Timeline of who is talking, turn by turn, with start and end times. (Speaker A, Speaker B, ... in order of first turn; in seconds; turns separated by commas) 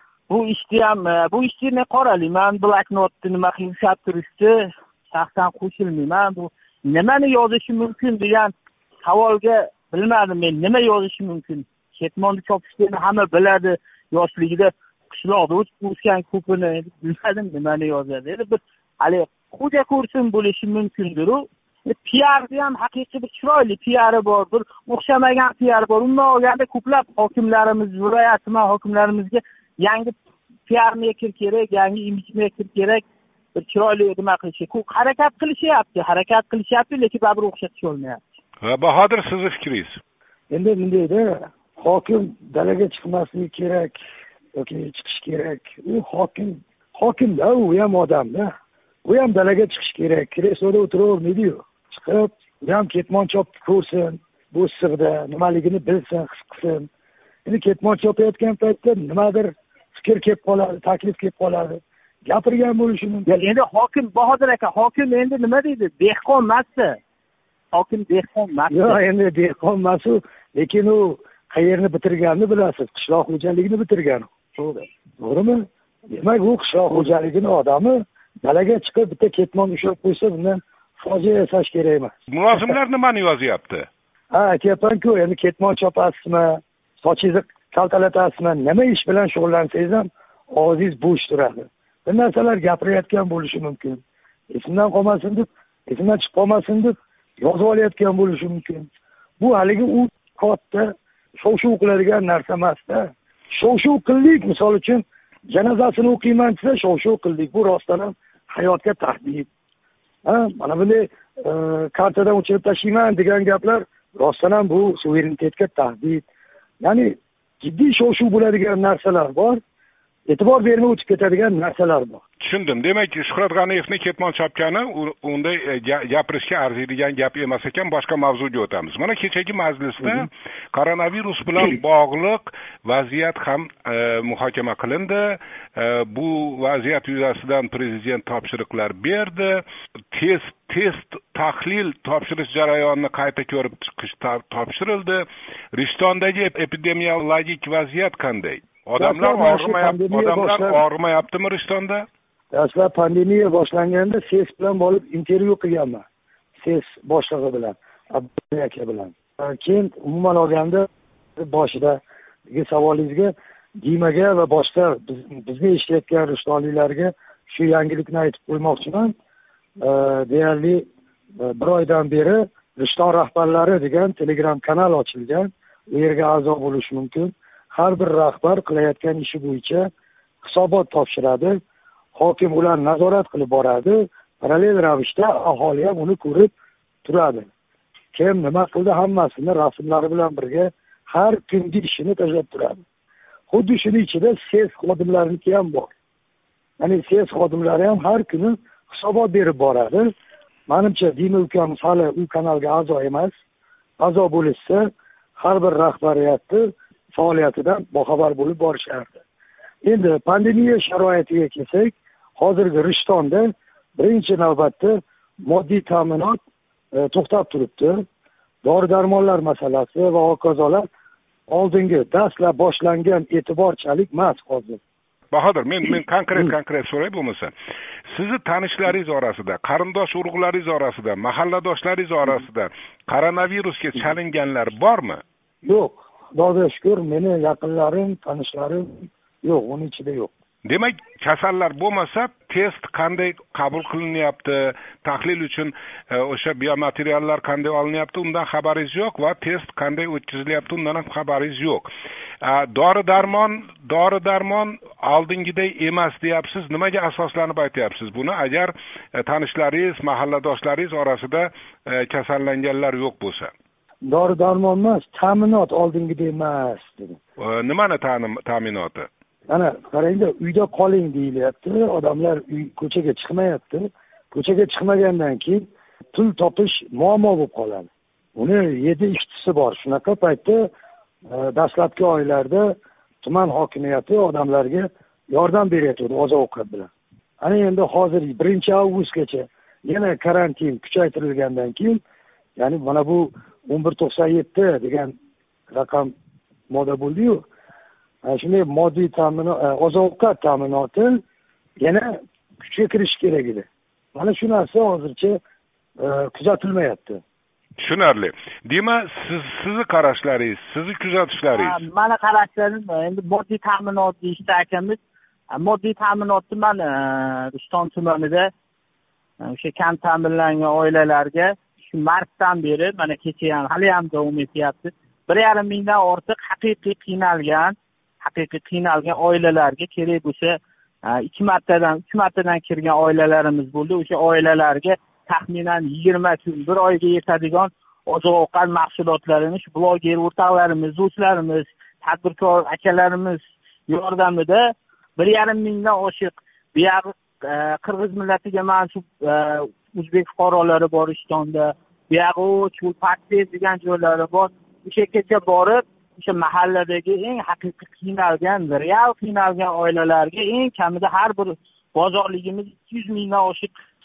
Speaker A: 0.3-30.2, Speaker A: 30.7-33.0, Speaker A: 33.6-38.2, Speaker B: 38.6-40.0, Speaker C: 40.5-44.0, Speaker C: 44.6-48.5, Speaker C: 49.0-56.9, Speaker C: 57.5-63.3, Speaker A: 63.3-67.0, Speaker A: 67.7-69.0, Speaker C: 68.7-74.3, Speaker A: 74.6-74.9, Speaker C: 75.2-82.7, Speaker B: 82.3-83.9, Speaker C: 84.3-98.9, Speaker C: 99.4-109.5, Speaker C: 110.2-116.3, Speaker C: 116.8-119.6, Speaker C: 120.3-122.2, Speaker B: 122.4-152.1, Speaker C: 149.0-150.8, Speaker C: 152.5-156.0, Speaker C: 156.6-160.9, Speaker C: 161.4-169.1, Speaker C: 169.8-170.8, Speaker C: 171.4-179.9, Speaker C: 180.4-181.6, Speaker C: 182.2-186.5, Speaker C: 187.1-187.5, Speaker C: 188.1-192.8, Speaker C: 193.5-195.9, Speaker C: 196.8-200.1, Speaker C: 200.7-203.3, Speaker C: 204.0-209.2, Speaker C: 209.8-216.4, Speaker C: 216.9-218.0, Speaker C: 218.6-220.8, Speaker C: 221.5-224.8, Speaker B: 225.3-227.5, Speaker B: 228.1-235.2, Speaker C: 235.6-240.3, Speaker B: 240.7-251.9, Speaker B: 252.4-263.5, Speaker C: 264.1-267.2, Speaker B: 267.4-269.1, Speaker C: 269.5-280.7, Speaker C: 281.3-286.9, Speaker C: 287.4-292.0, Speaker C: 292.6-295.1, Speaker C: 295.7-296.1, Speaker C: 296.7-297.5, Speaker C: 298.2-301.2, Speaker C: 301.8-305.4, Speaker C: 306.0-307.2, Speaker B: 307.8-311.8, Speaker A: 311.5-315.0, Speaker A: 315.5-318.5, Speaker A: 319.4-363.7